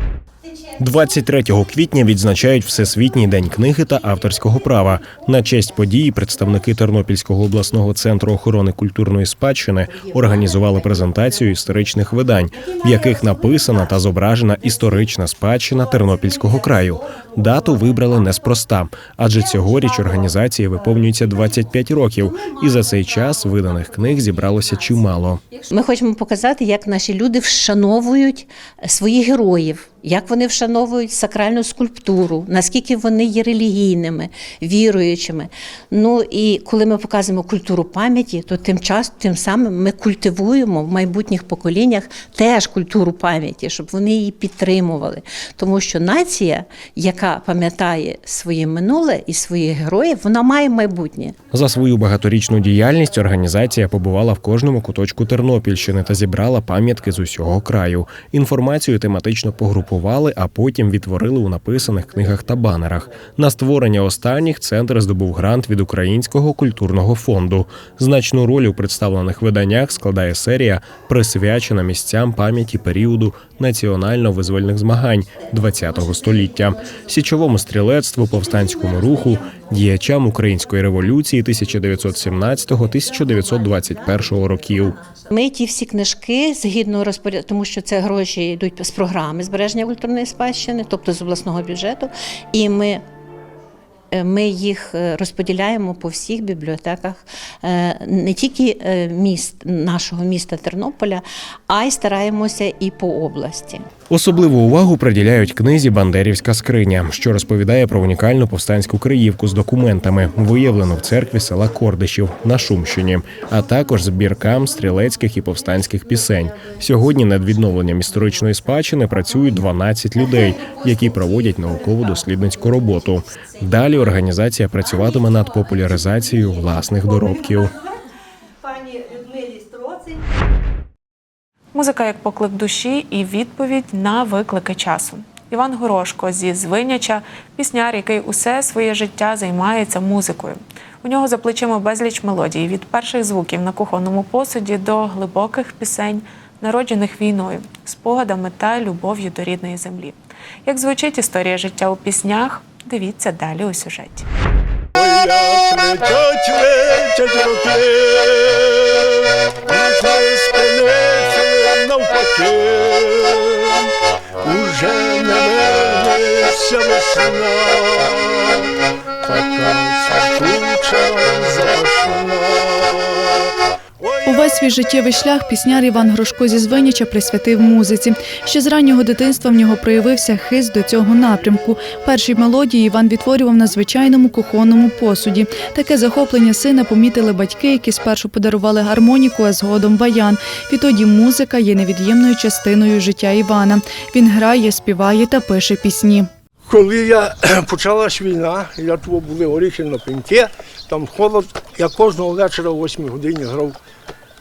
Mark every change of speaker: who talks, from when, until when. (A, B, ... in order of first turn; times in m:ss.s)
0:00.8-0:25.4 A
0:25.7-0:51.3 B
0:51.5-1:25.0 A
1:25.3-1:33.0 B
1:34.1-1:43.9 B
1:44.1-2:07.7 A
2:11.7-2:34.2 C
2:34.9-2:54.7 D
2:54.2-3:16.3 E
3:16.7-3:23.8 D